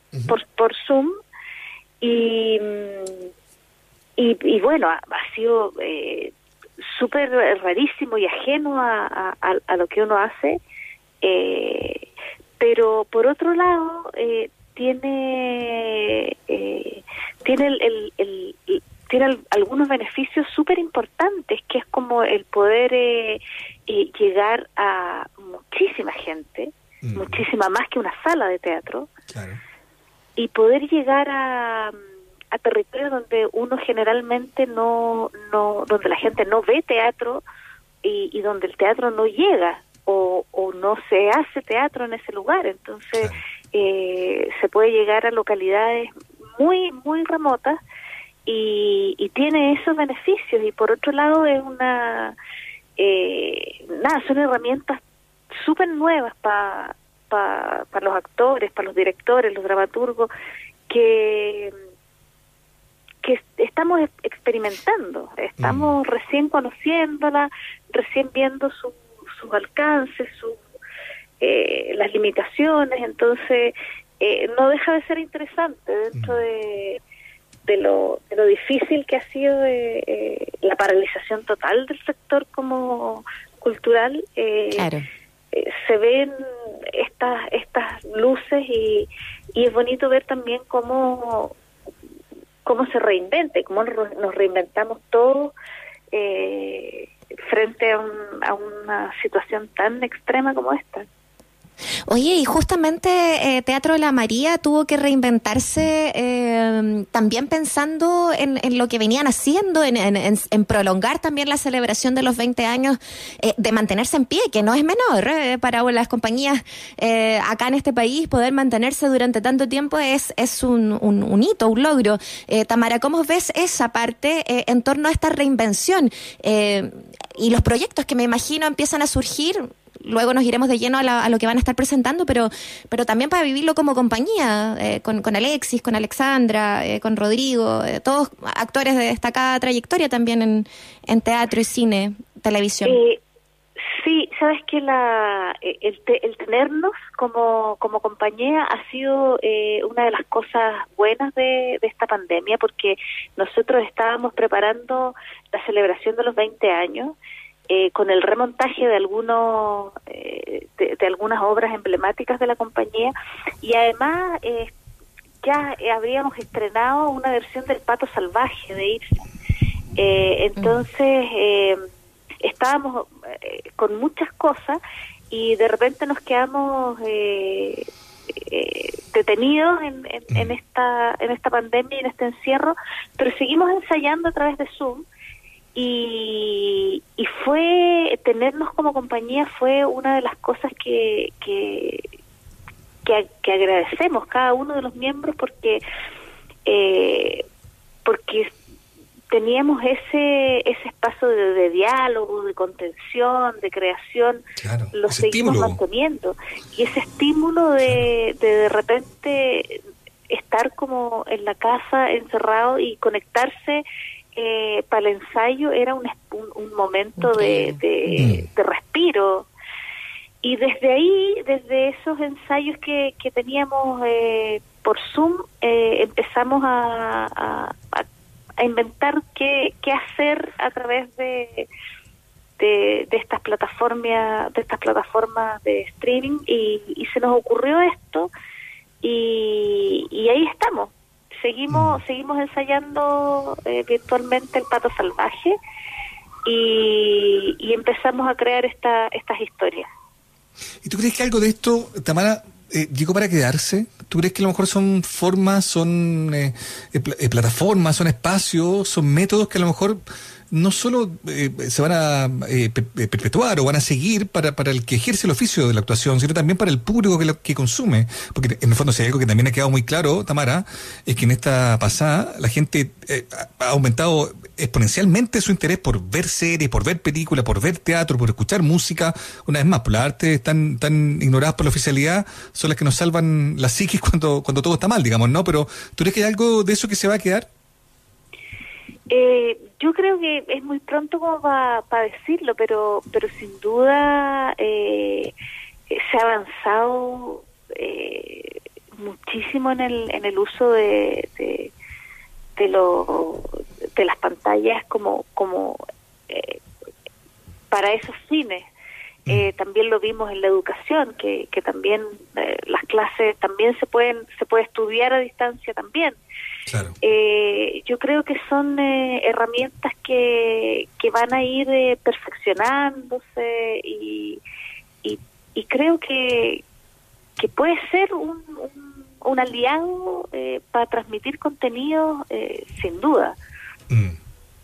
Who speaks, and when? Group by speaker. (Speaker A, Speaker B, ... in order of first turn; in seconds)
Speaker A: 0.3-1.1, 2.0-3.3, 4.2-10.6, 11.2-12.1, 12.6-29.1, 30.4-31.9, 32.5-37.4, 38.0-47.8, 48.5-52.3, 53.0-55.0, 55.5-60.3, 60.9-61.7, 63.2-70.6, 71.4-77.0, 77.7-84.9, 85.5-86.3, 86.9-91.6, 92.6-95.5, 96.1-101.1, 142.8-143.2, 143.8-157.2, 157.7-164.7, 165.4-169.3, 170.0-171.8, 172.4-174.8, 175.3-185.1, 185.8-192.1, 193.1-195.8, 196.7-197.4, 198.1-198.5, 199.3-213.8, 214.3-219.5, 220.4-228.1, 228.6-231.7, 232.6-238.3, 239.0-245.6, 246.4-249.9, 289.1-295.3, 295.9-301.7, 302.6-306.6, 307.7-308.7, 309.3-316.2, 317.0-324.4, 325.0-326.6, 327.4-333.4
Speaker B: 27.0-27.4, 29.3-29.6, 65.6-66.0, 204.6-205.8, 218.2-218.4, 241.7-242.0, 250.8-260.0, 260.5-287.5, 316.7-317.0, 333.9-334.2
Speaker C: 84.8-85.0, 102.1-143.0, 170.6-170.8, 217.2-217.8